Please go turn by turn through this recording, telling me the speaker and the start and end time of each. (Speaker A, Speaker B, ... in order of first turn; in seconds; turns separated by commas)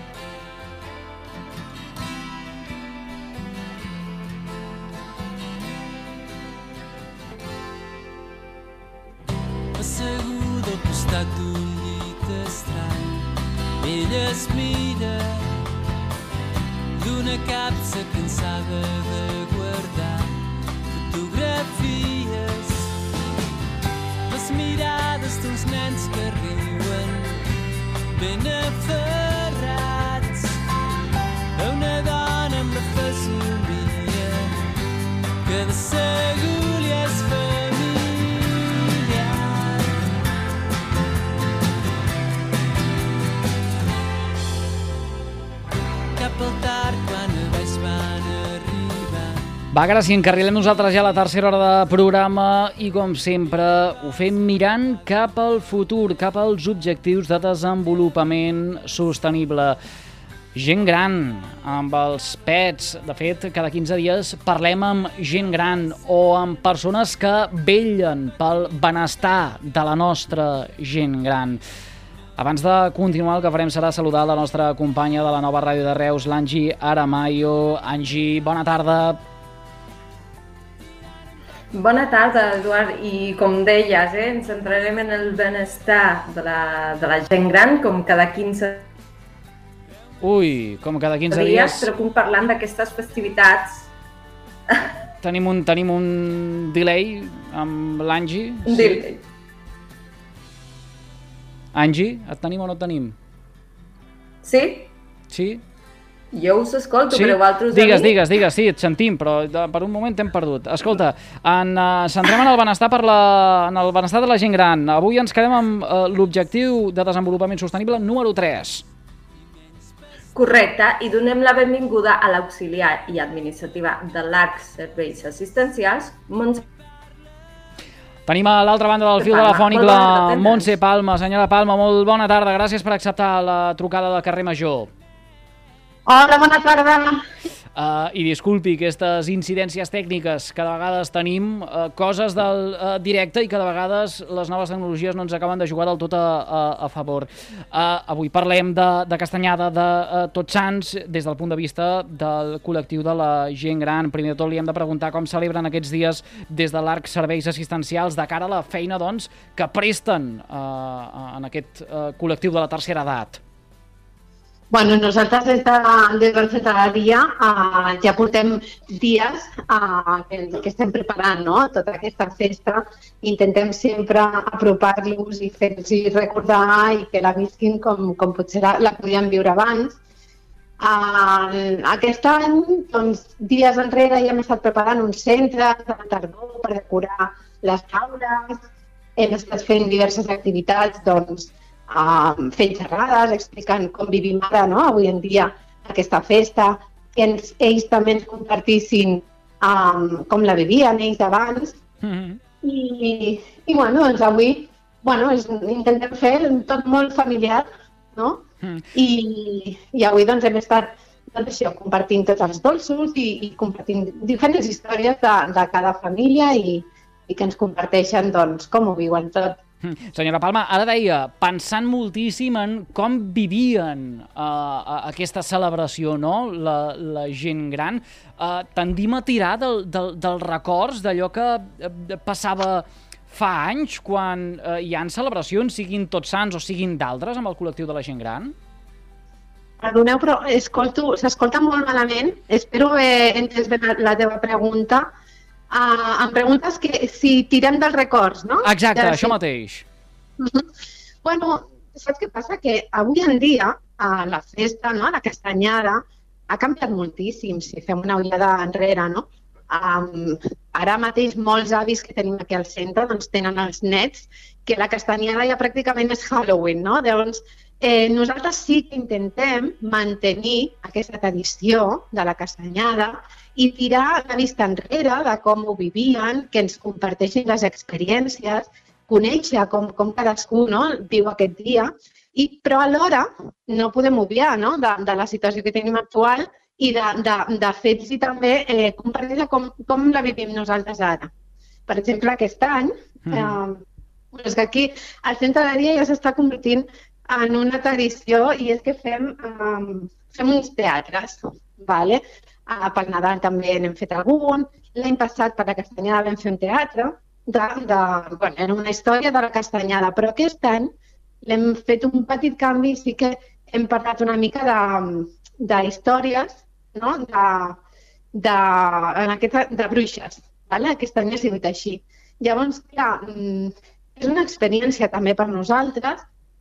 Speaker A: 9.7-15.6, Speaker A: 16.9-22.9, Speaker A: 24.3-27.5, Speaker A: 28.1-30.6, Speaker A: 31.5-34.6, Speaker A: 35.4-40.0, Speaker A: 46.1-49.5, Speaker B: 49.7-59.8, Speaker B: 60.5-71.6, Speaker B: 72.4-79.2, Speaker C: 81.7-88.9, Speaker B: 90.2-91.9, Speaker C: 91.3-93.9, Speaker B: 95.2-99.0, Speaker C: 98.7-99.2, Speaker B: 101.7-103.1, Speaker C: 104.4-104.9, Speaker B: 105.3-105.6, Speaker C: 106.3-108.2, Speaker B: 107.1-118.8, Speaker C: 120.3-126.6, Speaker B: 128.3-134.9, Speaker C: 129.2-130.7, Speaker D: 136.1-137.2, Speaker B: 137.7-163.4, Speaker D: 164.7-179.9, Speaker D: 180.8-188.6, Speaker D: 189.2-201.8, Speaker B: 202.0-202.4, Speaker D: 202.6-219.6, Speaker B: 219.8-238.5, Speaker D: 239.8-245.1, Speaker D: 245.7-249.3, Speaker B: 248.6-249.8, Speaker D: 250.4-250.6, Speaker D: 251.2-291.3, Speaker D: 291.9-310.9, Speaker B: 293.2-293.5, Speaker D: 311.4-317.8, Speaker D: 318.3-326.2